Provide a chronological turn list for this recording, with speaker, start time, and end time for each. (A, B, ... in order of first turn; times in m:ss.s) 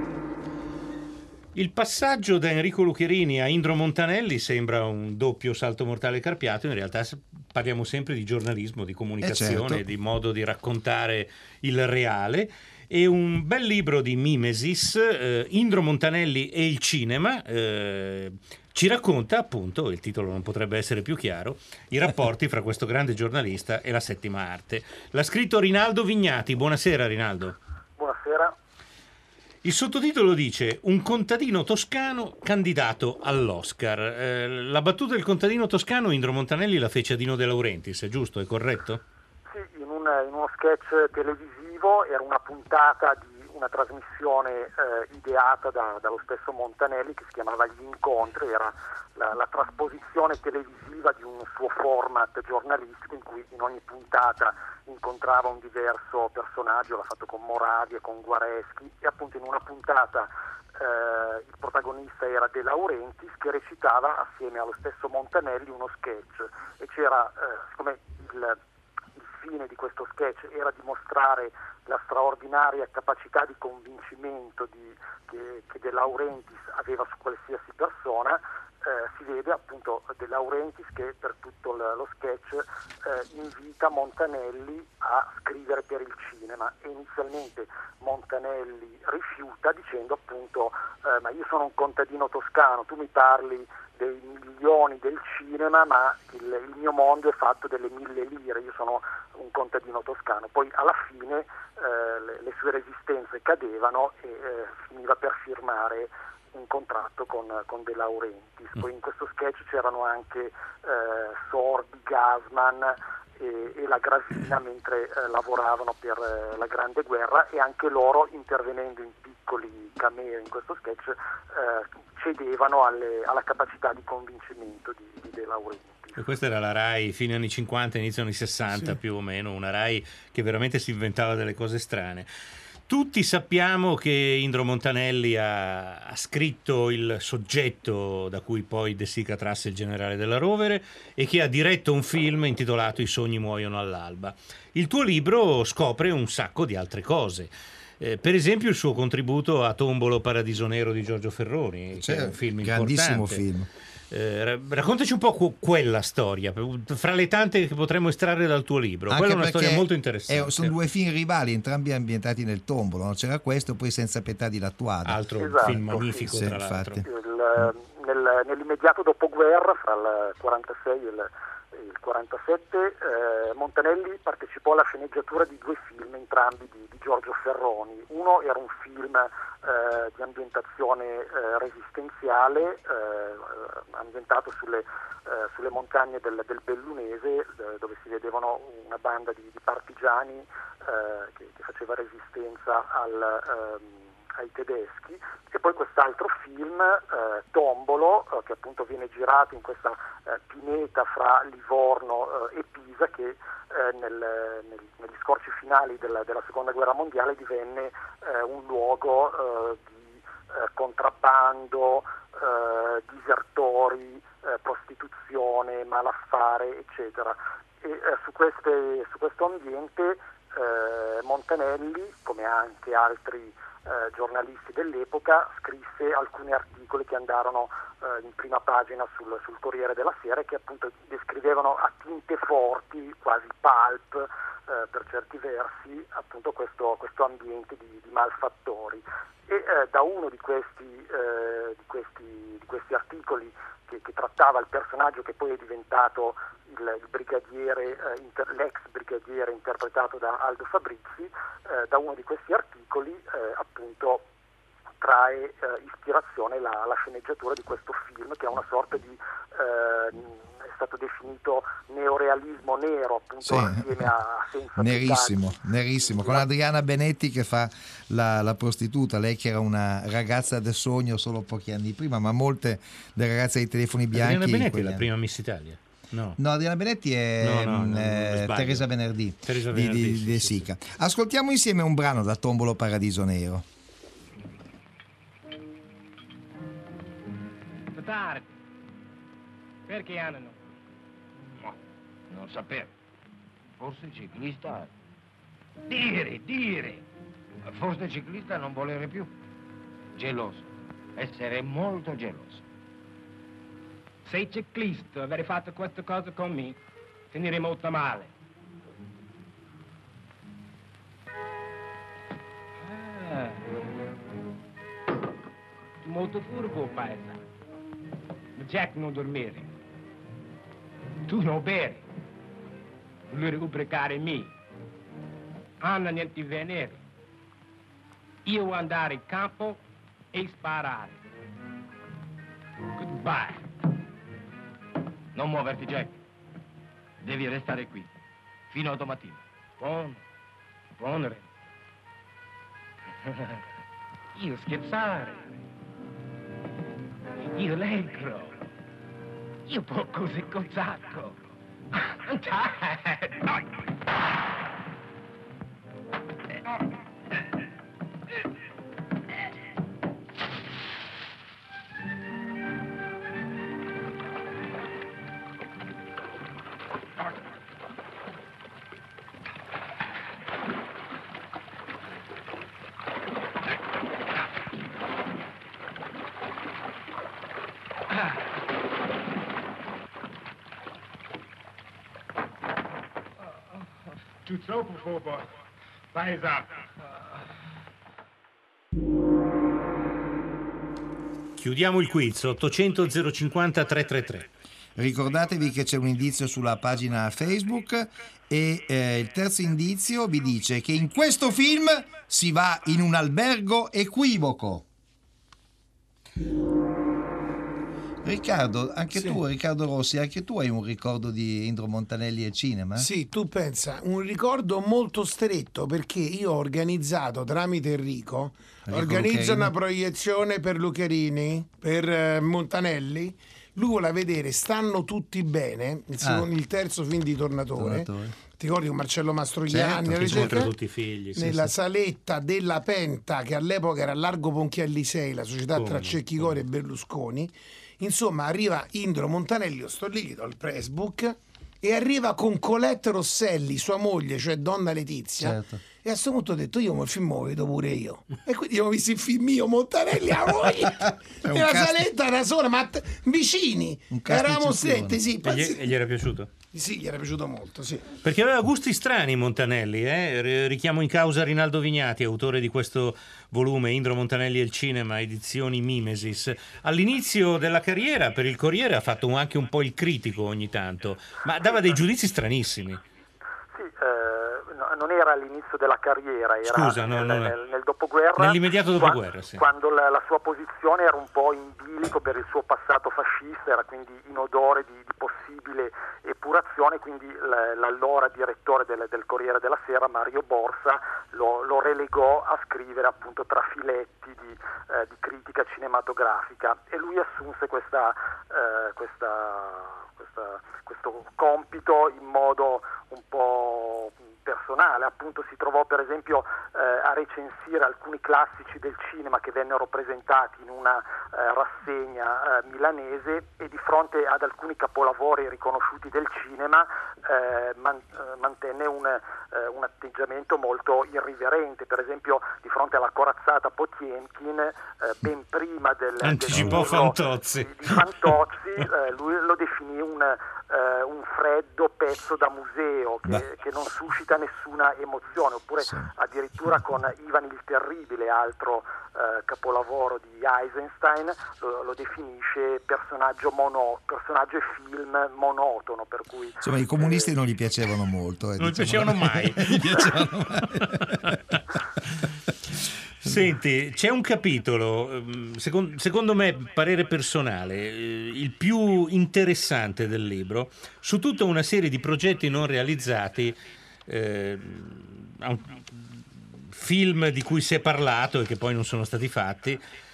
0:01.5-0:27.6 A
0:09.2-0:09.8 B
0:28.0-0:28.6 C
0:29.6-0:39.0 A
0:39.5-1:08.6 C
1:09.2-2:06.3 C
2:06.2-2:12.3 A
2:12.9-2:33.4 A
2:31.9-2:33.7 B
2:34.1-2:40.8 A
2:39.1-2:47.0 B
2:45.0-2:47.1 A
2:45.4-2:45.8 C
2:47.0-4:14.2 C
4:15.0-4:25.4 C
4:23.4-4:24.1 B
4:24.8-4:35.1 B
4:26.1-4:26.4 C
4:34.1-4:36.4 A
4:36.4-4:43.6 B
4:37.4-4:38.9 A
4:39.5-4:40.7 A
4:47.9-4:48.5 D
4:49.9-4:50.6 D
4:52.3-4:52.9 E
4:53.8-4:54.9 E
4:55.9-4:57.0 E
4:57.7-4:59.3 E
5:00.2-5:00.6 E
5:01.2-5:02.6 E
5:04.2-5:06.8 D
5:07.3-5:08.3 D
5:12.8-5:13.7 D
5:16.0-5:17.4 D
5:18.6-5:19.7 D
5:21.3-5:22.0 D
5:23.3-5:24.5 D
5:25.8-5:27.0 D
5:28.4-5:29.8 D
5:30.3-5:31.2 D
5:33.0-5:33.6 D
5:35.4-5:36.2 E
5:37.2-5:38.1 E
5:38.7-5:39.4 E
5:39.8-5:40.2 D
5:41.0-5:41.4 D
5:43.3-5:43.6 D
5:44.4-5:45.4 D
5:47.4-5:48.6 D
5:49.7-5:51.4 D
5:52.1-5:53.4 D
6:24.4-6:25.4 D
6:26.1-6:26.7 D
6:31.6-6:34.5 A
6:35.0-6:44.8 B
6:48.2-6:53.1 B
6:53.0-7:10.7 F
6:58.9-6:59.7 B
7:06.2-7:06.5 B
7:07.8-7:08.4 B
7:09.7-7:10.7 B
7:09.9-7:11.6 A
7:11.4-7:35.8 F
7:15.7-7:16.6 A
7:25.4-7:25.8 B
7:31.4-7:32.0 B
7:34.1-7:35.2 B
7:35.4-7:36.5 A
7:36.7-7:38.0 F
7:38.2-7:53.0 A
7:51.7-7:52.0 C
7:53.7-9:07.3 C
7:56.6-7:57.6 A
7:58.4-7:59.6 A
8:46.2-8:48.3 A
8:46.5-8:46.8 B
8:55.8-8:56.1 B
9:06.6-9:11.1 B
9:08.6-9:11.6 A
9:13.2-9:29.8 A